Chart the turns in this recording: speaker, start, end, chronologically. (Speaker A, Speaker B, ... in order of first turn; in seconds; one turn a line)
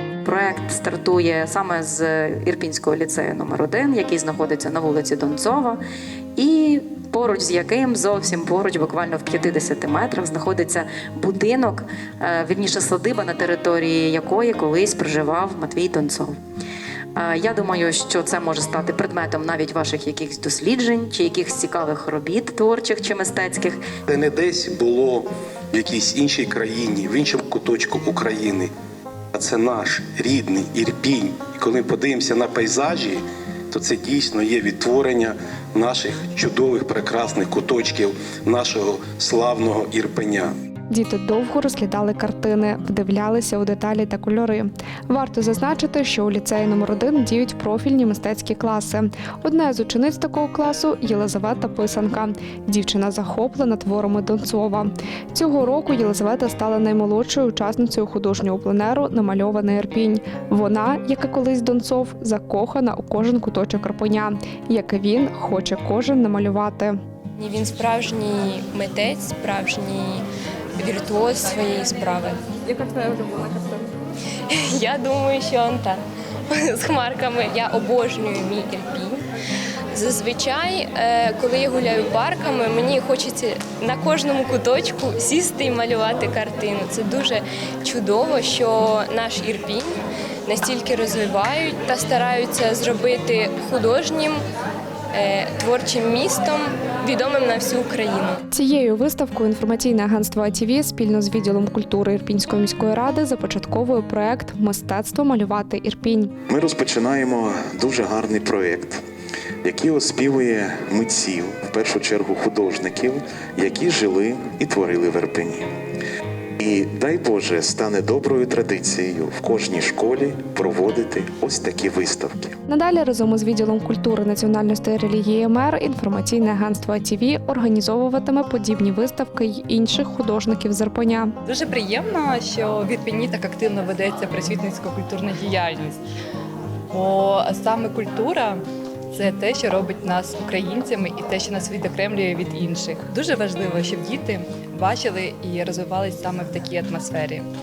Speaker A: 0.2-5.8
Speaker A: 6.3-16.4
Speaker A: 17.1-23.9
Speaker B: 24.1-28.7
Speaker B: 29.3-40.5
Speaker C: 40.9-67.0
Speaker D: 67.4-73.5
Speaker D: 74.5-79.2
Speaker D: 79.9-94.4
Speaker D: 95.1-98.4
Speaker C: 98.5-106.3
Speaker E: 106.5-109.0
Speaker E: 109.6-115.7
Speaker E: 116.6-122.6
Speaker C: 122.7-131.3
Speaker F: 131.4-136.0
Speaker F: 136.9-138.6
Speaker F: 139.1-147.4